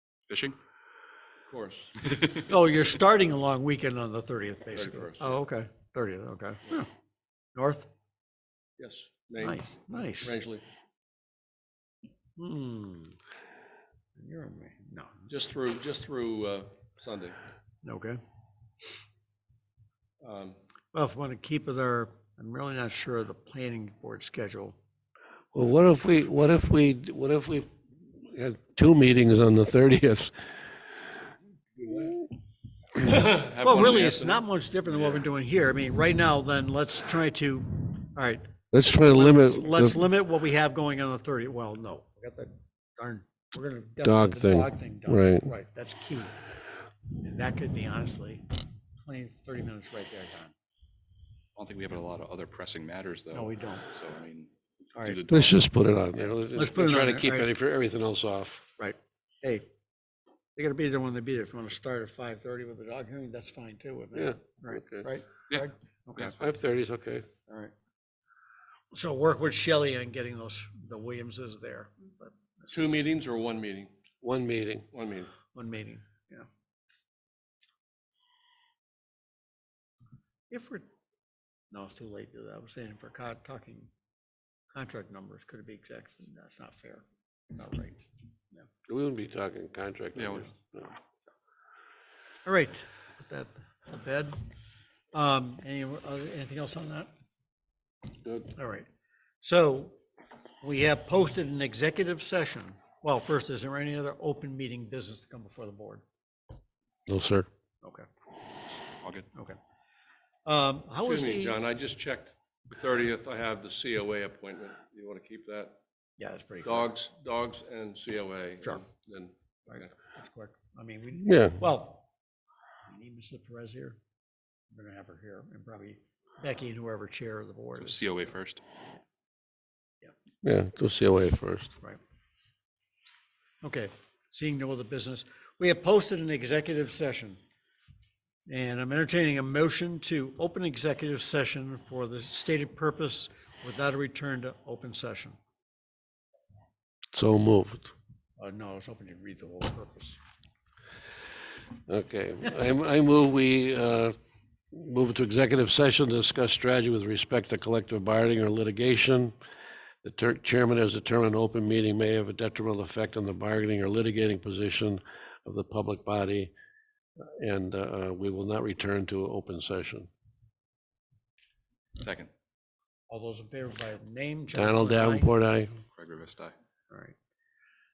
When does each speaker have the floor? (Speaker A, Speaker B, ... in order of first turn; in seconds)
Speaker A: 0.3-0.6, 2.0-2.4, 51.5-55.5, 108.9-109.3, 127.8-128.6, 172.0-172.3, 175.9-176.5
Speaker B: 1.5-1.9, 4.7-5.5, 8.8-10.6, 15.3-17.4, 20.2-20.6, 31.8-32.1, 33.0-35.2, 72.7-73.9, 74.9-75.3, 111.0-115.8, 116.6-119.9
Speaker C: 2.5-6.9, 7.5-7.9, 9.4-10.3, 12.4-13.2, 14.2-15.3, 17.8-18.2, 20.9-24.8, 33.6-46.4, 47.2-48.4, 49.0-50.5, 53.3-53.8, 56.5-57.5, 58.8-59.6, 60.5-66.4, 67.5-67.7, 68.9-72.8, 75.5-76.5, 80.5-80.8, 81.7-83.9, 84.7-88.7, 92.4-94.3, 95.1-97.1, 98.5-98.9, 99.4-100.0, 100.6-106.0, 110.5-111.6, 116.2-116.9, 119.7-122.0, 122.9-124.0, 124.7-128.3, 133.6-137.4, 138.5-145.4, 148.4-150.2, 173.1-175.3
Speaker D: 25.5-30.3, 38.7-40.0, 44.0-45.5, 55.3-58.6, 64.1-65.1, 66.2-67.3, 74.2-74.9, 88.9-90.9, 107.1-107.5, 121.2-121.6, 130.4-131.7, 147.1-147.9, 151.9-154.1, 154.7-159.3, 160.0-166.5, 167.2-170.1, 174.5-175.7